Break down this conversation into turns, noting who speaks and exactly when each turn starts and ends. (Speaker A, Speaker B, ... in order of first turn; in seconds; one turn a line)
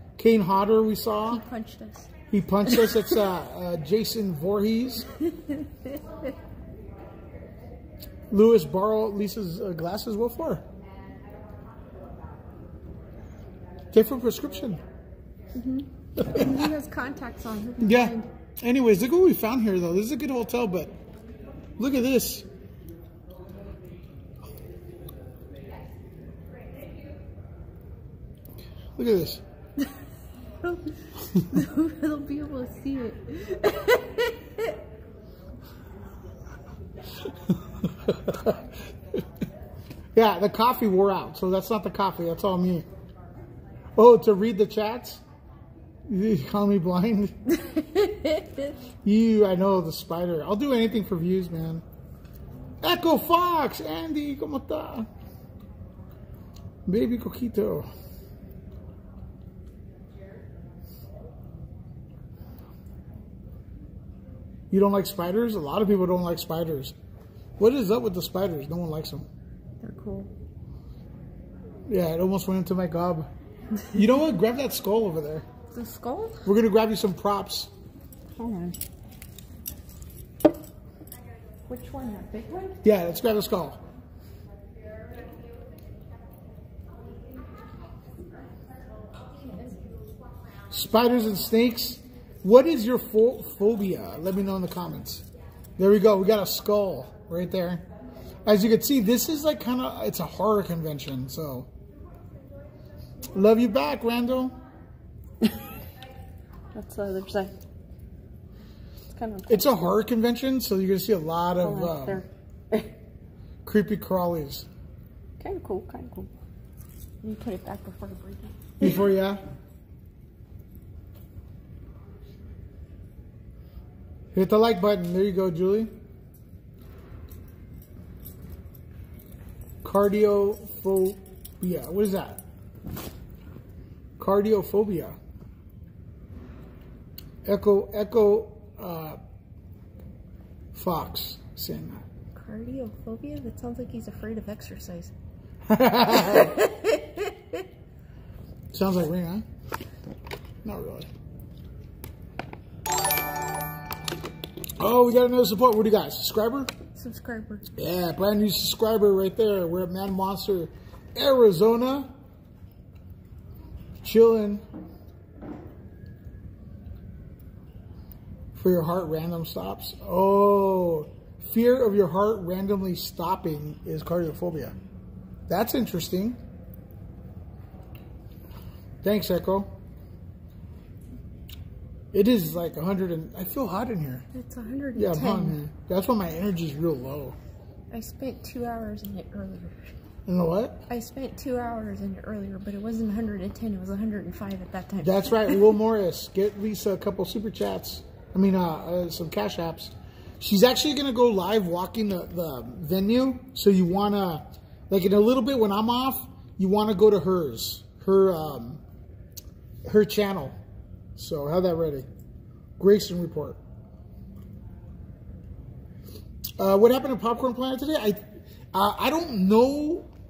Speaker A: 0.2-1.4
Speaker B: 1.3-2.1
Speaker A: 2.3-5.1
Speaker A: 8.3-10.6
Speaker A: 13.9-14.8
Speaker B: 15.5-18.3
Speaker A: 16.2-16.6
Speaker A: 17.8-20.9
Speaker A: 21.8-22.5
Speaker A: 29.0-29.4
Speaker B: 30.6-30.9
Speaker B: 31.5-34.7
Speaker A: 37.8-38.6
Speaker A: 40.1-42.9
Speaker A: 44.0-45.2
Speaker A: 46.1-47.4
Speaker B: 47.8-48.5
Speaker A: 49.0-51.8
Speaker A: 52.8-55.1
Speaker A: 56.9-57.9
Speaker A: 64.7-66.9
Speaker A: 67.6-69.3
Speaker B: 69.8-70.3
Speaker A: 71.9-73.3
Speaker A: 73.9-75.5
Speaker B: 75.7-76.5
Speaker A: 76.5-77.7
Speaker B: 78.4-78.8
Speaker B: 81.7-82.8
Speaker A: 82.8-83.8
Speaker A: 90.7-95.2
Speaker A: 95.8-97.8
Speaker A: 98.5-101.7
Speaker A: 103.3-104.5
Speaker B: 106.8-107.5
Speaker B: 109.1-109.7
Speaker A: 109.5-112.2
Speaker B: 111.6-112.9
Speaker A: 113.7-114.7
Speaker B: 115.4-116.3
Speaker B: 117.2-119.0
Speaker A: 118.8-119.4
Speaker A: 124.3-125.9
Speaker A: 129.8-132.4
Speaker A: 134.2-135.2
Speaker A: 137.5-139.2
Speaker A: 140.8-142.0
Speaker B: 142.3-145.1
Speaker A: 145.7-146.5
Speaker B: 146.2-147.3
Speaker A: 148.7-149.4
Speaker A: 150.6-151.1
Speaker A: 154.8-156.7
Speaker B: 156.9-157.7
Speaker A: 157.8-162.1
Speaker A: 164.0-164.6
Speaker A: 168.6-174.8
Speaker A: 175.5-176.4
Speaker A: 179.0-179.7
Speaker A: 182.1-184.2
Speaker B: 184.3-185.6
Speaker A: 184.9-187.4
Speaker B: 187.9-189.9
Speaker A: 190.3-190.8
Speaker B: 190.9-195.6
Speaker A: 195.0-208.8
Speaker A: 209.9-210.6
Speaker A: 211.2-212.1
Speaker A: 212.8-213.6
Speaker A: 216.6-218.2
Speaker A: 218.7-220.1